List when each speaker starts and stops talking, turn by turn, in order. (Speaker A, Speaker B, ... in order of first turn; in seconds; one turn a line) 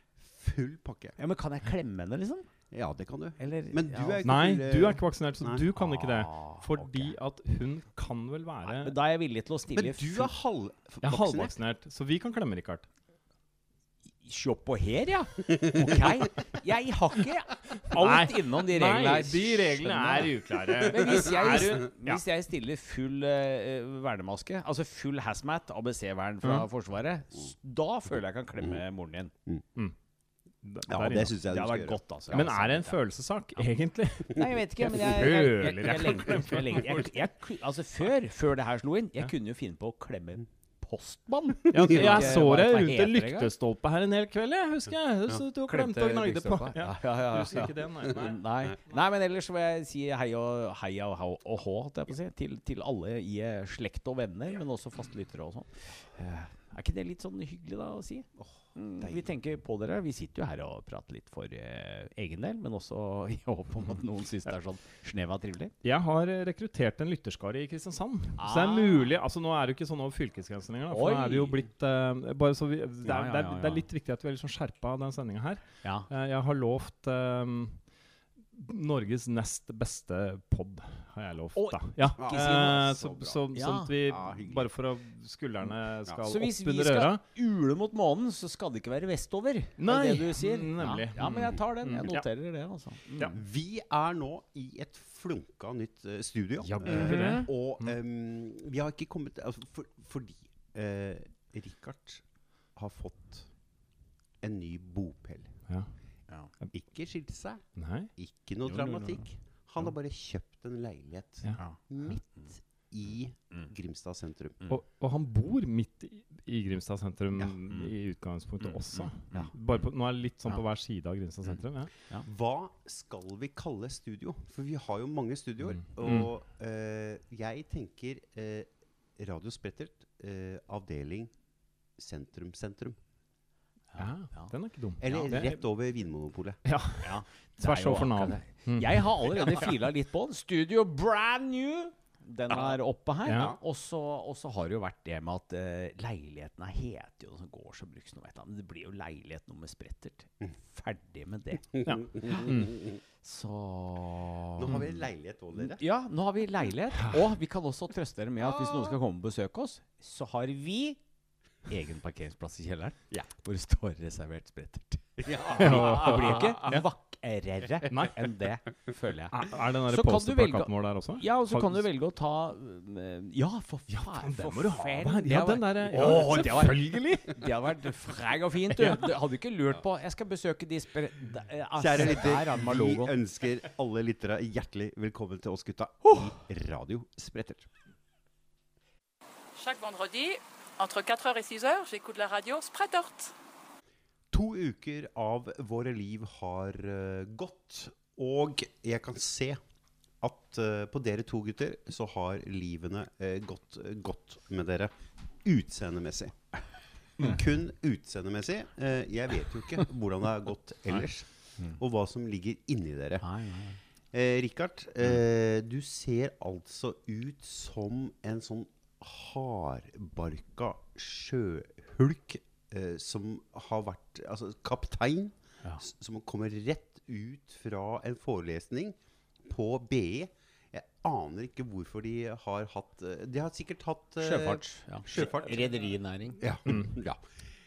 Speaker A: 0.2-1.1
Speaker B: 1.2-2.5
Speaker A: 2.7-5.6
Speaker B: 3.4-4.3
Speaker C: 4.2-8.9
Speaker B: 5.7-7.1
Speaker B: 8.7-10.3
Speaker A: 9.7-11.5
Speaker C: 11.0-12.8
Speaker B: 14.2-29.3
Speaker A: 15.5-16.1
Speaker C: 17.9-22.2
Speaker C: 30.6-31.4
Speaker A: 30.9-32.5
Speaker B: 31.5-33.0
Speaker C: 32.3-37.3
Speaker B: 34.3-43.5
Speaker C: 41.7-49.0
Speaker A: 41.7-42.3
Speaker B: 45.7-65.7
Speaker A: 58.4-59.2
Speaker C: 65.8-77.8
Speaker B: 68.4-69.1
Speaker B: 70.9-71.6
Speaker B: 73.0-73.8
Speaker B: 75.8-76.1
Speaker C: 78.5-87.2
Speaker B: 81.5-82.8
Speaker A: 82.2-83.4
Speaker B: 83.5-83.9
Speaker A: 84.0-84.7
Speaker B: 86.2-93.3
Speaker C: 89.8-92.3
Speaker A: 93.3-103.5
Speaker C: 96.6-98.0
Speaker B: 96.8-97.5
Speaker A: 104.4-105.6
Speaker C: 105.7-105.9
Speaker A: 106.7-107.6
Speaker C: 107.8-108.1
Speaker A: 108.2-114.6
Speaker B: 108.6-109.2
Speaker C: 114.7-122.0
Speaker B: 118.6-119.5
Speaker A: 122.2-131.3
Speaker C: 126.0-126.3
Speaker A: 131.9-133.0
Speaker B: 133.9-134.5
Speaker C: 134.0-135.6
Speaker A: 135.0-136.6
Speaker C: 136.6-139.7
Speaker B: 137.0-155.0
Speaker C: 143.2-143.5
Speaker A: 143.3-143.6
Speaker A: 151.7-152.9
Speaker C: 151.8-152.7
Speaker A: 154.6-155.8
Speaker B: 155.5-161.0
Speaker A: 158.4-159.0
Speaker B: 161.7-183.2
Speaker A: 165.2-166.5
Speaker C: 165.6-166.8
Speaker C: 167.9-168.2
Speaker C: 169.3-171.8
Speaker C: 173.9-177.4
Speaker C: 178.8-179.1
Speaker A: 181.8-187.7
Speaker D: 189.6-193.3
Speaker A: 194.3-199.6
Speaker A: 200.2-204.9
Speaker A: 205.4-206.6
Speaker A: 207.2-213.2
Speaker B: 213.2-213.8
Speaker A: 214.1-235.9
Speaker B: 234.2-236.8
Speaker A: 236.4-237.3